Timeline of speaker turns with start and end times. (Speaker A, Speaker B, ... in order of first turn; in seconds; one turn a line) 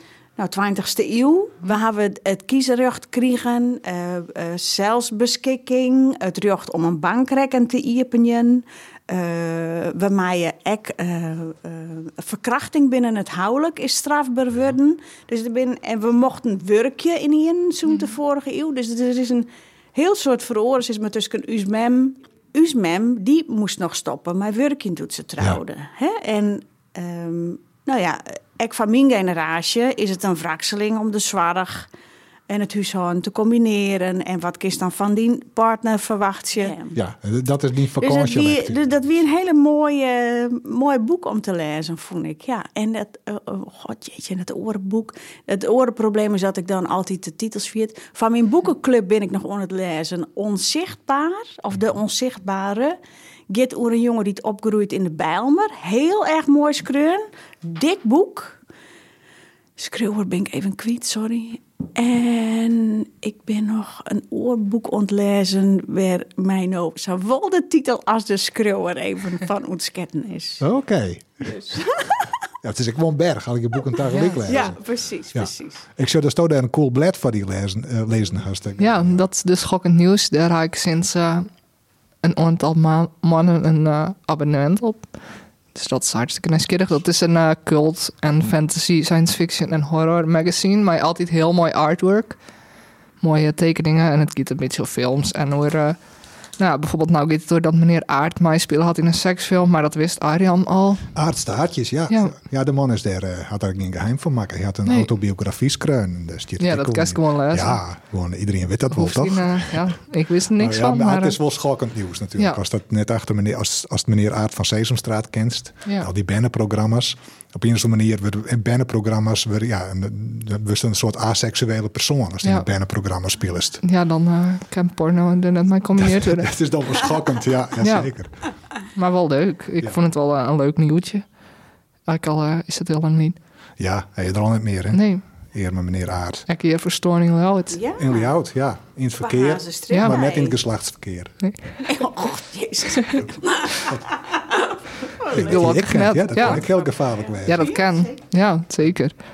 Speaker A: 0.4-31.9
Speaker A: 32.5-37.0
Speaker B: 36.9-38.9
Speaker A: 38.0-53.0
Speaker A: 53.5-58.6
Speaker A: 59.8-70.6
Speaker B: 70.6-71.5
Speaker A: 71.4-72.3
Speaker B: 72.6-74.8
Speaker C: 74.1-74.5
Speaker A: 74.4-75.8
Speaker B: 75.3-79.2
Speaker C: 78.8-81.5
Speaker C: 82.2-85.0
Speaker C: 85.7-92.4
Speaker C: 93.2-96.0
Speaker C: 96.6-101.1
Speaker B: 101.1-109.8
Speaker C: 102.1-102.3
Speaker C: 106.6-107.8
Speaker C: 108.9-111.4
Speaker B: 110.5-123.8
Speaker C: 123.8-126.5
Speaker B: 126.0-128.3
Speaker C: 127.8-128.1
Speaker C: 128.9-131.2
Speaker C: 132.1-133.3
Speaker B: 133.8-135.0
Speaker C: 134.9-135.2
Speaker B: 135.5-136.4
Speaker C: 136.5-137.8
Speaker A: 137.7-138.3
Speaker B: 138.0-141.3
Speaker A: 139.2-140.6
Speaker C: 139.9-140.2
Speaker A: 141.8-144.6
Speaker A: 145.2-145.5
Speaker C: 145.3-146.7
Speaker B: 145.3-147.7
Speaker C: 147.4-149.1
Speaker A: 147.5-148.1